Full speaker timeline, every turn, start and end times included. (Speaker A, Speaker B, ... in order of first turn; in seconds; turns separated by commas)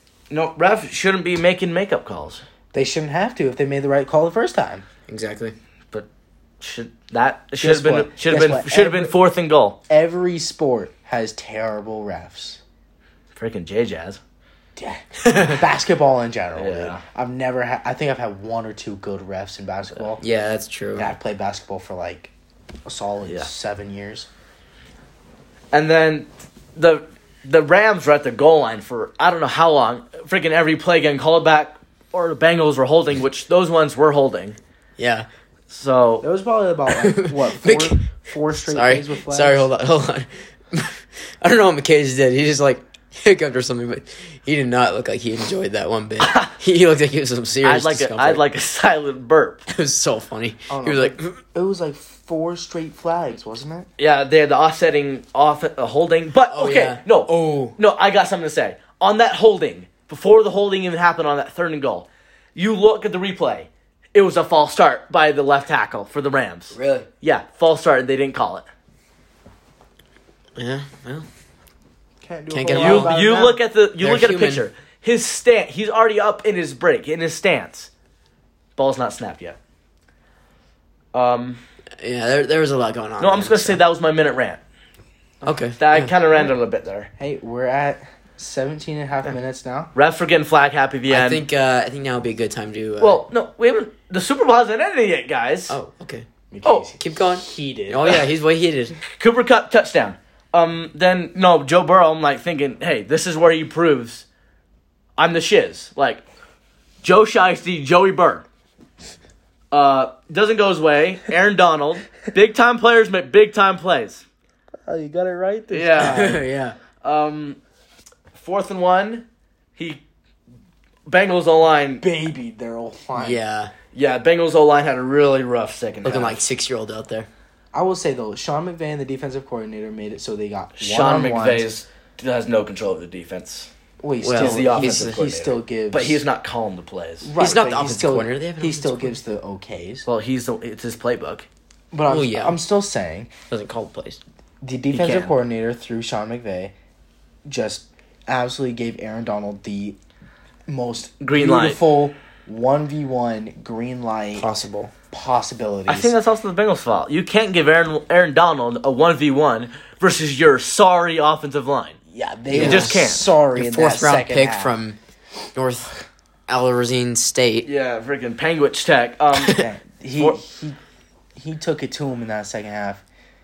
Speaker A: 0.3-2.4, Speaker B: 2.7-4.8, Speaker C: 5.1-5.5, Speaker A: 6.6-9.8, Speaker B: 7.6-9.1, Speaker B: 9.9-12.6, Speaker A: 13.3-14.2, Speaker B: 14.8-20.2, Speaker C: 15.2-15.5, Speaker A: 16.6-17.0, Speaker C: 20.2-21.1, Speaker B: 20.9-22.3, Speaker B: 22.9-24.3, Speaker A: 25.7-34.6, Speaker C: 35.0-35.3, Speaker A: 35.7-36.2, Speaker B: 36.2-39.7, Speaker C: 37.0-48.4, Speaker A: 46.2-46.5, Speaker A: 47.6-49.6, Speaker C: 49.7-51.4, Speaker B: 50.7-53.9, Speaker A: 54.0-68.7, Speaker C: 56.5-57.8, Speaker C: 66.7-67.1, Speaker C: 70.5-71.2, Speaker B: 72.2-73.6, Speaker C: 72.5-73.2, Speaker A: 72.7-77.9, Speaker C: 74.0-74.6, Speaker A: 78.8-79.6, Speaker A: 81.1-81.6, Speaker C: 82.0-83.8, Speaker A: 83.2-84.6, Speaker C: 85.4-86.1, Speaker A: 85.8-87.1, Speaker B: 87.2-89.9, Speaker A: 89.9-91.4, Speaker C: 91.1-93.2, Speaker A: 93.0-95.7, Speaker C: 95.7-96.3, Speaker B: 96.5-98.2, Speaker C: 97.0-99.0, Speaker A: 99.1-104.2, Speaker A: 105.2-106.2, Speaker A: 107.0-108.4, Speaker A: 109.7-114.2, Speaker B: 114.8-116.4, Speaker A: 115.7-116.3, Speaker C: 116.0-116.8, Speaker A: 117.0-117.6, Speaker A: 118.3-120.0, Speaker A: 121.0-122.0, Speaker B: 122.0-123.4, Speaker C: 123.1-123.7, Speaker A: 123.9-126.4, Speaker C: 126.0-127.3, Speaker B: 127.7-131.7, Speaker A: 130.8-133.7, Speaker B: 134.0-136.2, Speaker C: 134.2-135.2, Speaker A: 134.3-137.3, Speaker B: 137.2-140.1, Speaker C: 137.4-139.2, Speaker A: 140.1-141.5, Speaker B: 141.9-143.3, Speaker C: 142.1-142.6, Speaker C: 143.5-144.2, Speaker B: 144.6-146.7, Speaker A: 144.9-145.3, Speaker B: 147.4-150.0, Speaker B: 150.7-156.1, Speaker A: 151.2-151.8, Speaker C: 154.3-154.9, Speaker A: 155.9-162.0, Speaker B: 162.1-164.8, Speaker A: 162.5-163.3, Speaker C: 162.5-165.0, Speaker C: 165.5-165.9, Speaker C: 166.5-167.7, Speaker A: 167.6-169.6, Speaker B: 169.5-170.8, Speaker B: 171.3-173.0